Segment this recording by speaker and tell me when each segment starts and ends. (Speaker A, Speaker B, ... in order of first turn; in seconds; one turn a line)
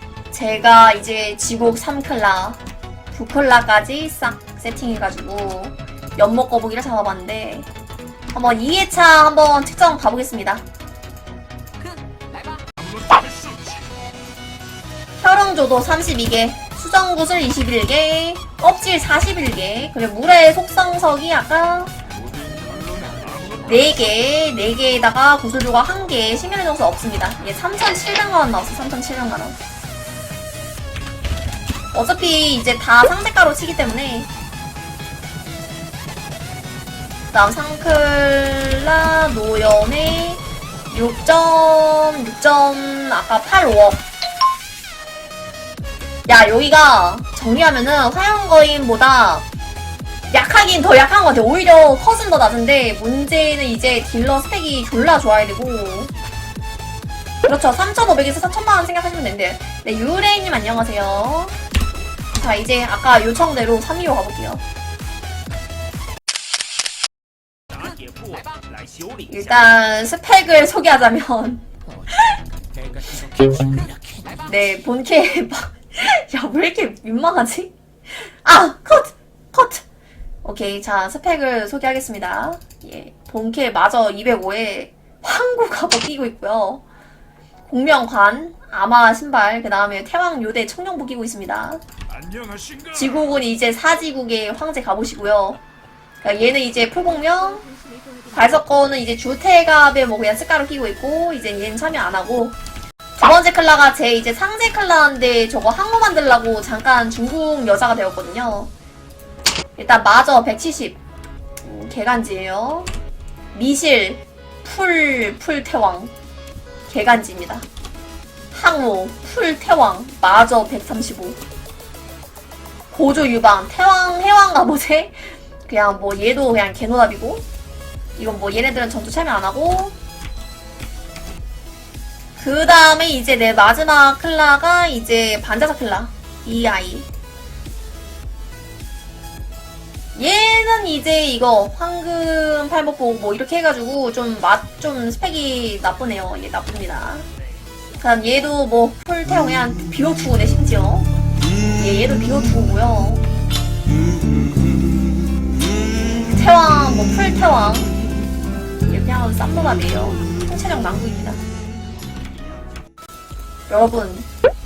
Speaker A: 0.3-2.6
Speaker A: 3.1-7.7
Speaker A: 8.3-10.6
Speaker B: 12.8-13.7
Speaker A: 15.2-21.9
Speaker B: 22.4-23.5
Speaker A: 23.6-29.6
Speaker A: 31.9-34.3
Speaker A: 37.3-44.0
Speaker A: 46.3-49.4
Speaker A: 50.3-56.1
Speaker A: 57.4-61.5
Speaker A: 62.3-64.6
Speaker A: 69.3-72.3
Speaker A: 74.4-79.8
Speaker A: 80.4-86.8
Speaker A: 87.7-91.8
Speaker B: 92.3-92.8
Speaker A: 92.9-95.6
Speaker A: 96.2-97.7
Speaker A: 98.3-102.5
Speaker A: 103.2-108.7
Speaker A: 109.8-111.0
Speaker A: 111.6-112.9
Speaker A: 113.5-116.1
Speaker A: 116.9-117.7
Speaker A: 118.5-121.4
Speaker A: 122.9-127.4
Speaker A: 128.2-129.9
Speaker A: 132.4-137.1
Speaker A: 140.1-147.2
Speaker A: 148.0-151.1
Speaker A: 151.7-153.2
Speaker A: 156.1-157.9
Speaker A: 158.9-161.4
Speaker A: 163.7-164.3